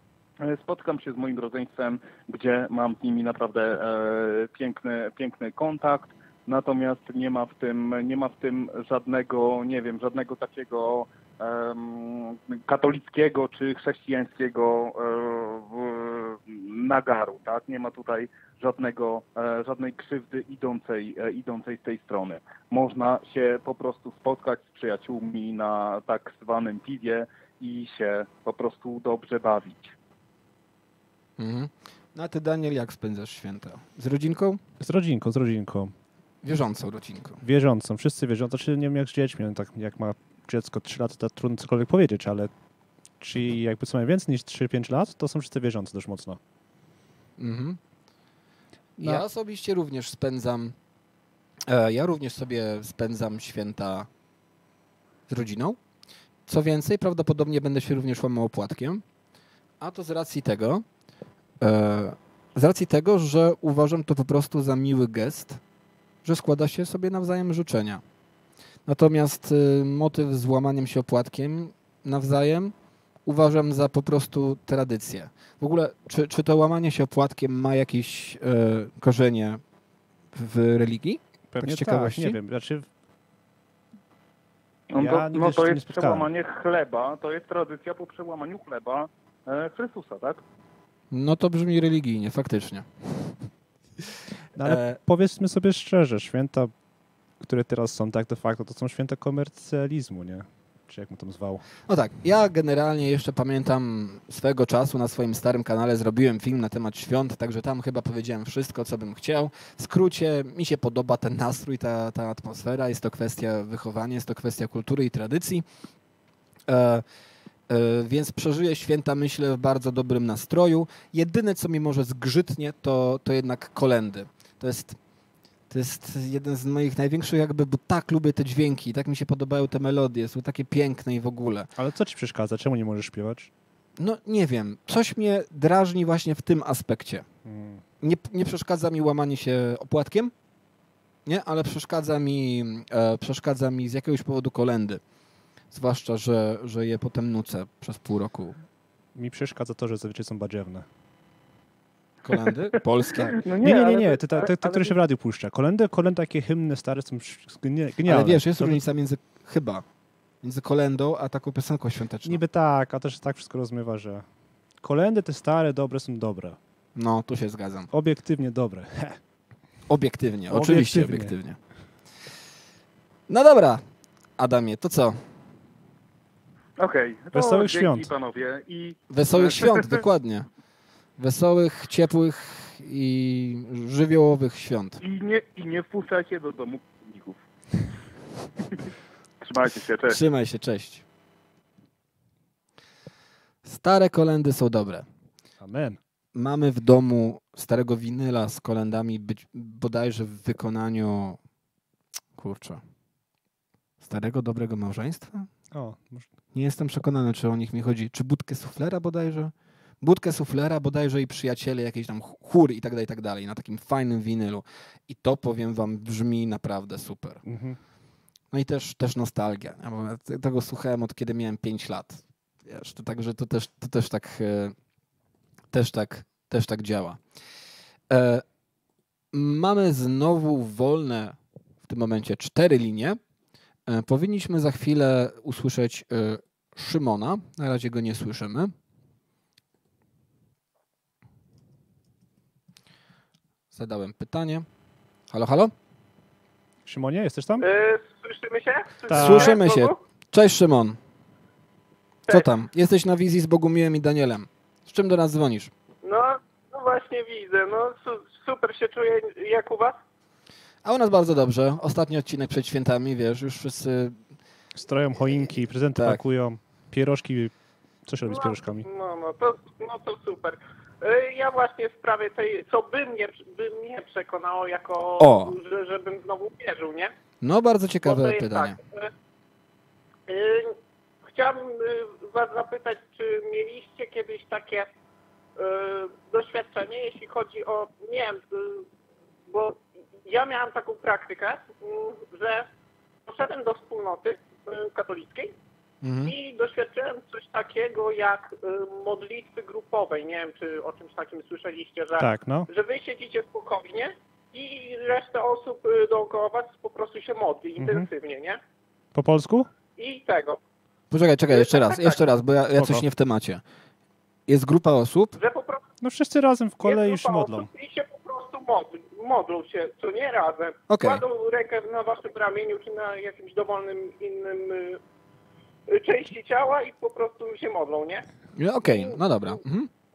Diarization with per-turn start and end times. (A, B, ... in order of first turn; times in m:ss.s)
0:00.4-0:29.9 A
0:31.4-0:34.6 B
0:34.8-0:35.9 C
0:36.4-0:37.4 B
0:37.4-0:42.5 C
0:43.2-0:46.4 C
0:47.4-0:47.8 B
0:49.0-0:50.8 B
0:51.6-0:54.1 B
0:55.3-0:55.8 B
0:56.5-0:59.0 B
0:59.8-1:00.8 B
1:01.6-1:05.6 B
1:06.2-1:08.0 B
1:08.8-1:12.7 B
1:13.2-1:19.6 B
1:20.3-1:22.4 B
1:21.5-1:22.9 C
1:24.9-1:30.4 A
1:25.0-1:26.3 C
1:31.1-1:33.4 B
1:34.5-1:36.7 C
1:34.6-1:35.0 B
1:37.4-1:41.6 C
1:41.9-1:55.6 B
1:56.7-1:57.0 B
1:57.7-2:05.0 B
2:05.7-2:11.7 B
2:11.8-2:13.5 C
2:14.0-2:17.2 B
2:17.4-2:17.8 C
2:18.0-2:20.3 B
2:21.2-2:25.0 B
2:25.7-2:28.6 B
2:29.1-2:30.8 C
2:32.2-2:33.3 B
2:33.1-2:34.9 A
2:33.2-2:38.8 C
2:38.0-2:39.8 B
2:40.4-2:42.4 B
2:42.2-2:44.2 C
2:44.8-2:46.6 C
2:46.9-2:47.9 B
2:47.9-2:49.2 C
2:49.9-2:51.6 B
2:50.5-2:51.3 C
2:53.3-2:53.8 B
2:54.4-2:55.2 B
2:56.8-3:00.0 A
2:57.3-2:58.1 C
2:59.1-3:00.5 B
3:01.2-3:05.0 B
3:05.0-3:07.9 A
3:09.4-3:10.2 A
3:10.0-3:11.0 B
3:13.6-3:15.0 B
3:15.6-3:16.0 C
3:16.3-3:21.4 B
3:22.4-3:22.8 B
3:24.0-3:25.5 B
3:25.7-3:26.3 C
3:26.5-3:37.4 B
3:37.4-3:37.8 C
3:38.5-3:44.7 B
3:45.7-3:47.2 B
3:48.1-3:48.4 B
3:49.3-3:53.2 B
3:53.9-3:58.7 B
4:03.7-4:04.6 B
4:05.3-4:05.7 B
4:06.8-4:07.6 C
4:07.6-4:10.0 D
4:09.1-4:09.6 C
4:09.1-4:11.0 B
4:12.3-4:15.7 B
4:16.0-4:20.0 D
4:20.8-4:24.2 B
4:24.8-4:27.5 C
4:25.9-4:26.2 B
4:28.0-4:28.8 C
4:28.2-4:37.1 D
4:35.2-4:35.6 B
4:37.4-4:38.8 B
4:38.0-4:39.1 D
4:40.3-4:44.9 D
4:45.6-4:48.8 D
4:49.5-4:52.7 D
4:53.3-4:55.5 D
4:56.0-4:56.3 B
4:56.2-5:08.6 D
5:02.2-5:02.7 C
5:07.8-5:08.1 C
5:09.1-5:09.7 C
5:10.0-5:10.6 D
5:11.1-5:13.6 B
5:11.5-5:12.2 D
5:12.8-5:13.0 C
5:14.5-5:15.4 B
5:15.4-5:15.8 D
5:16.0-5:17.7 C
5:16.8-5:25.0 D
5:20.9-5:21.2 B
5:25.9-5:28.2 D
5:28.6-5:29.9 B
5:28.8-5:29.6 D